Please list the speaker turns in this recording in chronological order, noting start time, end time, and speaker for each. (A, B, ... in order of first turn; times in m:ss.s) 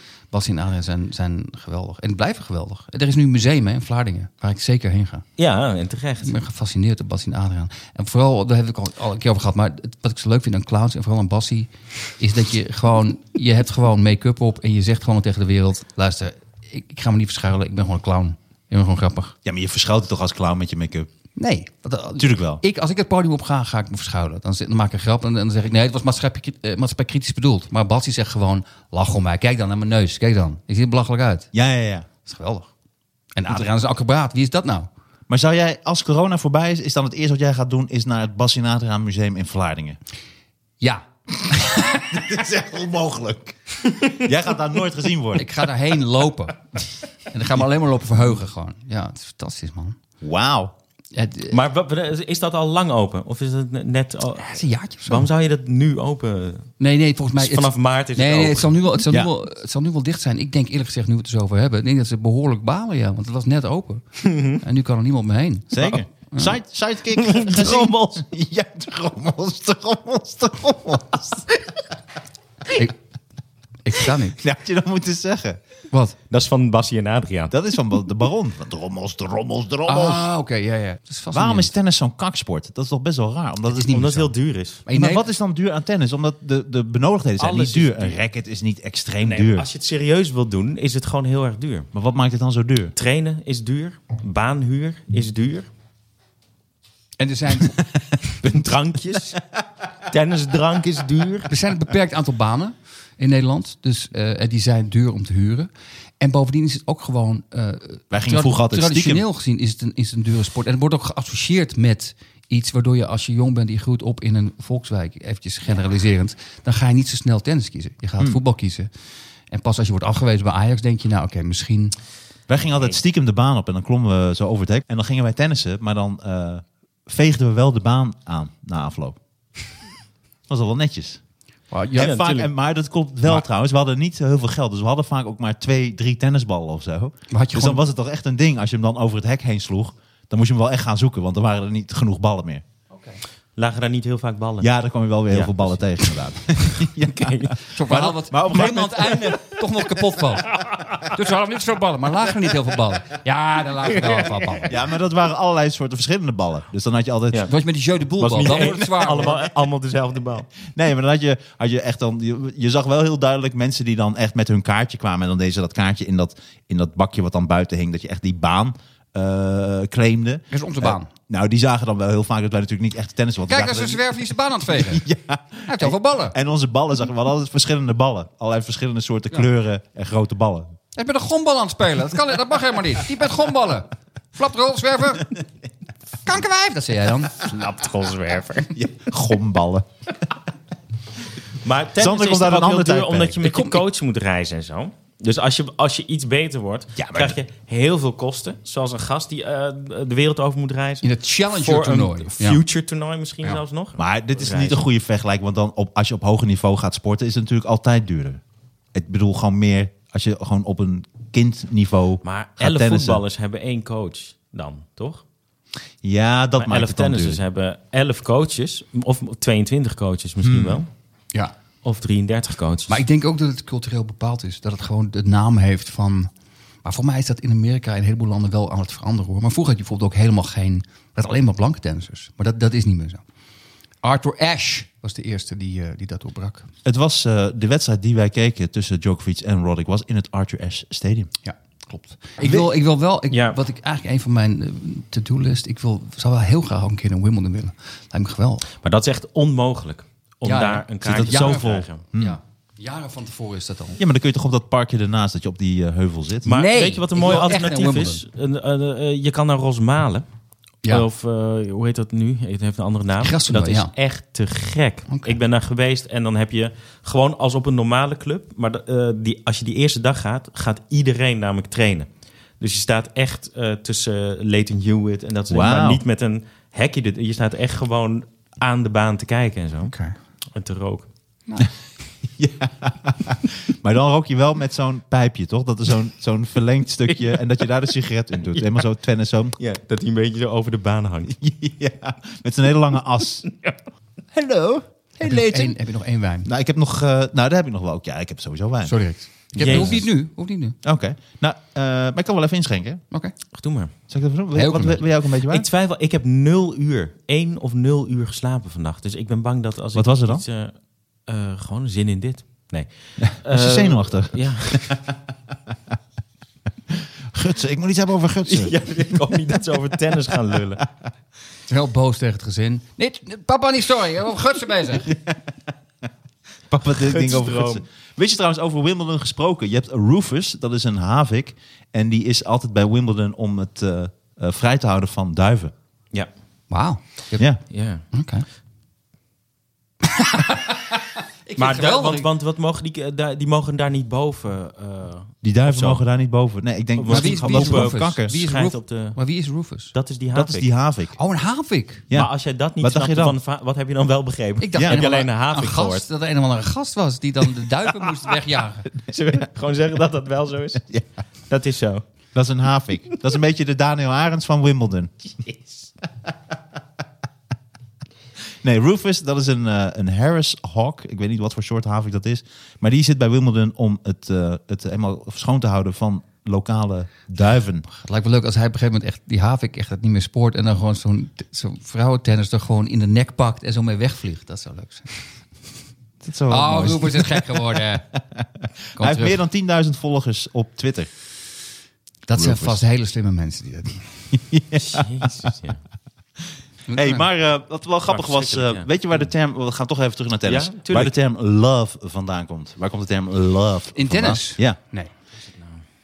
0:00.3-0:05.2 A
0:05.4-0:06.3 B
0:06.2-0:19.3 A
0:19.4-0:21.1 C
0:21.4-0:31.5 A
0:22.2-0:22.6 C
0:31.5-0:32.1 C
0:32.2-0:32.7 A
0:33.3-0:34.9 A
0:35.3-0:40.0 C
0:40.8-0:41.9 A
0:41.5-0:45.5 C
0:45.4-0:46.6 A
0:47.3-0:50.0 A
0:50.2-0:50.7 C
0:51.1-0:51.6 A
0:51.5-0:56.7 B
0:54.4-0:55.3 A
0:56.8-1:06.6 A
0:57.4-0:58.8 B
1:04.2-1:04.6 B
1:05.7-1:11.6 C
1:07.1-1:08.2 B
1:13.8-1:14.4 A
1:14.4-1:15.6 C
1:15.9-1:16.2 A
1:16.3-1:17.5 B
1:17.5-1:20.3 C
1:19.8-1:21.7 A
1:21.3-1:24.3 C
1:23.7-1:24.2 A
1:23.9-1:24.8 B
1:24.8-1:25.2 A
1:24.9-1:29.7 C
1:27.4-1:28.2 B
1:29.2-1:31.9 B
1:31.9-1:32.9 C
1:33.0-1:35.7 B
1:37.2-1:37.8 A
1:38.4-1:39.4 B
1:40.1-1:41.5 B
1:41.5-1:58.9 A
1:48.1-1:49.2 C
1:59.5-2:02.0 A
2:02.5-2:09.2 C
2:10.5-2:11.2 C
2:11.7-2:12.1 A
2:11.9-2:22.6 C
2:12.0-2:12.5 B
2:17.3-2:17.8 A
2:22.9-2:23.2 A
2:23.6-2:24.7 B
2:24.6-2:29.3 C
2:25.3-2:25.8 B
2:26.6-2:27.5 B
2:27.7-2:30.5 A
2:30.5-2:31.1 B
2:31.1-2:34.7 A
2:34.0-2:34.4 B
2:34.6-2:37.5 C
2:37.4-2:39.4 A
2:38.2-2:40.5 B
2:38.5-2:39.5 C
2:40.6-3:00.7 C
2:50.5-2:51.1 A
2:53.5-2:55.0 A
2:55.7-2:56.4 A
3:01.0-3:05.3 A
3:06.2-3:07.4 A
3:07.4-3:08.7 B
3:08.7-3:09.9 C
3:11.6-3:24.8 B
3:12.0-3:13.4 C
3:13.4-3:13.8 A
3:17.0-3:17.4 C
3:21.0-3:22.6 A
3:24.0-3:28.4 C
3:28.9-3:33.2 C
3:32.2-3:35.2 B
3:36.0-3:37.4 C
3:36.6-3:40.9 B
3:40.4-3:40.8 C
3:41.8-3:43.0 B
3:42.9-3:46.3 A
3:46.8-3:53.2 A
3:54.0-3:56.7 A
3:56.8-4:01.3 C
4:01.4-4:08.7 A
4:02.4-4:02.7 C
4:03.3-4:03.6 B
4:08.8-4:12.0 B
4:10.4-4:14.0 A
4:11.0-4:12.4 C
4:14.0-4:16.5 C
4:16.4-4:20.2 B
4:16.4-4:18.2 A
4:20.9-4:32.1 B
4:23.2-4:23.9 A
4:25.1-4:25.3 A
4:32.6-4:39.9 B
4:35.5-4:36.0 C
4:39.9-4:40.2 A
4:40.5-4:41.1 B
4:42.4-4:49.6 C
4:49.6-4:51.3 B
4:51.3-4:53.4 C
4:54.3-4:55.8 C
4:55.2-4:56.5 A
4:56.4-4:58.9 C
4:58.8-5:00.8 A
4:59.6-5:00.0 B
4:59.6-5:00.0 C
5:00.8-5:03.0 C
5:03.5-5:03.9 B
5:04.1-5:05.6 C
5:04.5-5:05.0 A
5:05.4-5:10.7 B
5:09.9-5:10.4 C
5:11.2-5:15.0 B
5:13.4-5:15.1 C
5:16.9-5:19.3 C
5:18.4-5:20.8 B
5:21.7-5:25.1 A
5:25.0-5:25.4 C
5:26.7-5:35.7 C
5:26.9-5:27.8 B
5:36.7-5:37.5 A
5:37.7-5:38.0 B
5:38.1-5:38.4 A
5:40.0-5:42.3 A
5:41.6-5:46.0 B
5:45.4-5:48.5 C
5:47.0-5:49.2 B
5:47.1-5:49.9 A
5:49.9-5:50.6 B
5:50.3-5:51.2 C
5:51.2-5:52.0 A
5:52.1-5:53.4 C
5:52.1-5:56.0 B
5:54.6-5:58.9 A
5:54.8-5:55.0 C
5:59.1-6:01.0 B
6:01.5-6:02.0 B
6:02.3-6:05.4 C
6:08.6-6:17.8 C
6:17.9-6:25.1 A
6:26.2-6:27.5 C
6:26.5-6:28.1 A
6:28.1-6:31.1 C
6:29.0-6:29.4 A
6:32.3-6:34.0 A
6:32.3-6:32.8 C
6:34.3-6:35.2 C
6:34.8-6:35.8 B
6:36.9-6:37.2 A
6:36.9-6:44.8 C
6:38.1-6:38.9 B
6:40.5-6:41.1 B
6:43.9-6:45.1 A